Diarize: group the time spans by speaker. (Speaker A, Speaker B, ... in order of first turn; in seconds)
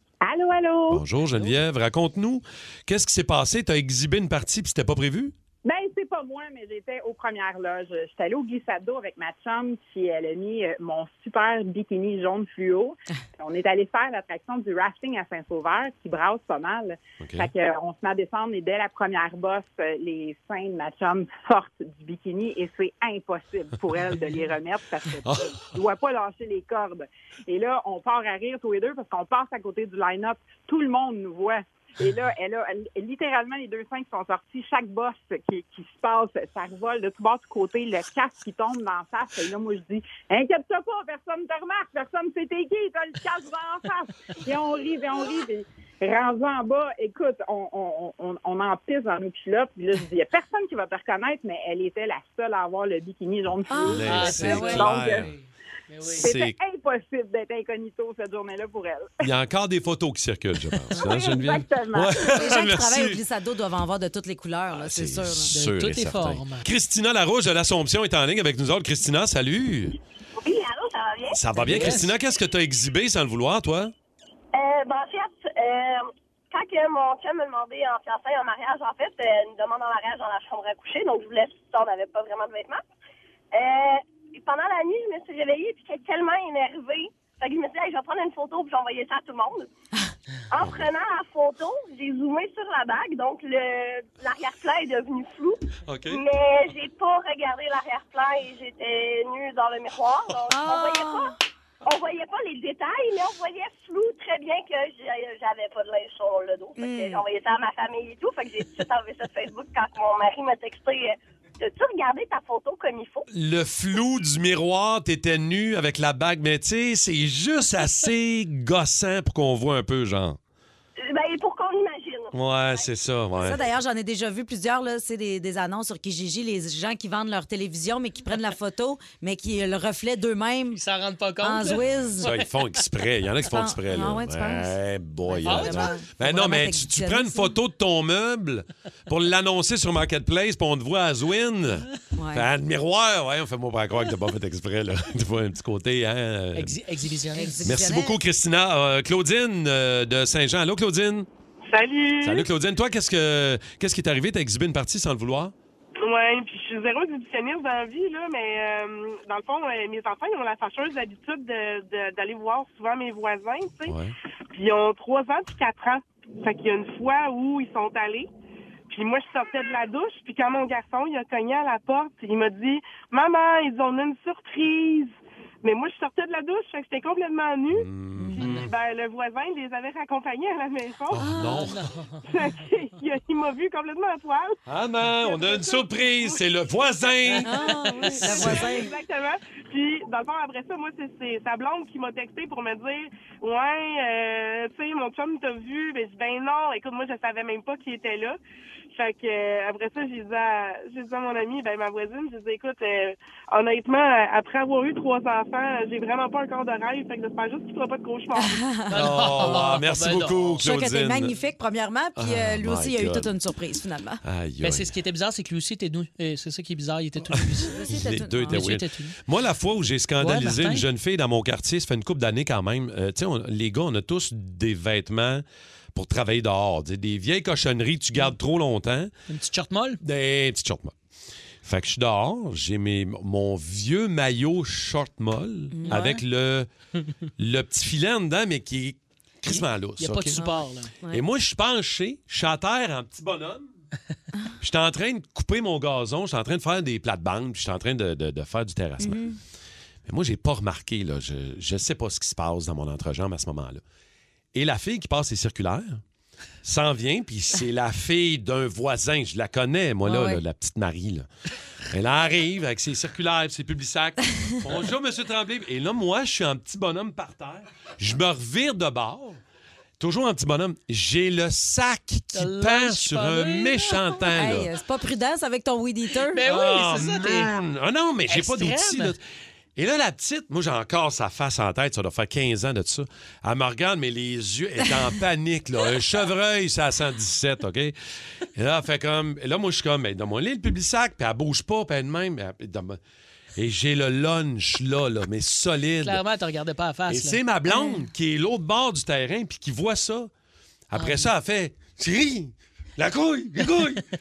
Speaker A: 0.2-1.0, 5.6-55.3, 56.2-59.2, 60.9-62.3
Speaker B: 0.9-5.3, 17.2-17.5, 25.2-25.6, 53.8-55.3, 56.2-56.5, 59.2-63.2, 64.7-70.0, 71.3-73.9, 90.6-90.9, 95.8-96.2, 113.3-120.4, 122.3-123.6, 132.2-146.8, 147.6-151.3, 152.2-155.5, 163.9-164.1, 177.7-178.7, 181.1-181.8, 184.7-188.7, 208.9-211.3, 212.2-213.3, 214.2-214.9, 217.3-229.1, 230.0-230.9, 231.6-236.7, 237.4-240.4, 241.1-243.7, 244.6-249.2, 250.1-253.8, 254.5-256.0, 256.6-261.3, 261.9-269.4, 270.0-274.7, 276.4-279.2, 279.8-287.9, 288.5-293.0, 293.6-296.2, 297.1-300.3, 300.9-304.1
Speaker C: 53.7-55.0, 62.2-65.5, 100.5-101.3, 106.8-107.2, 123.4-130.8, 131.4-132.3, 133.4-134.7, 135.3-137.5, 142.2-142.5, 147.3-148.2, 178.2-178.6, 181.2-181.7, 187.4-188.9, 208.3-209.0, 210.6-214.2, 217.6-218.7, 235.7-236.2, 240.3-241.2, 249.0-249.4, 260.0-260.4, 274.3-276.5, 297.7-298.1
Speaker D: 54.0-56.3, 65.5-66.7, 71.6-72.1, 130.7-132.8, 135.4-136.0, 146.5-147.6, 181.6-182.3, 188.0-188.5, 208.9-210.6, 214.6-219.2, 220.2-220.8, 229.3-230.0, 235.9-236.2, 240.0-240.9, 272.3-274.3, 276.3-277.5, 278.3-279.1, 296.0-297.4, 300.9-301.3
Speaker E: 70.4-72.0, 74.5-82.8, 83.5-89.7, 90.5-113.3, 121.0-122.8
Speaker F: 151.7-152.5, 156.0-164.0, 164.5-168.3, 168.9-181.3, 182.2-186.4, 187.0-198.4, 198.9-208.6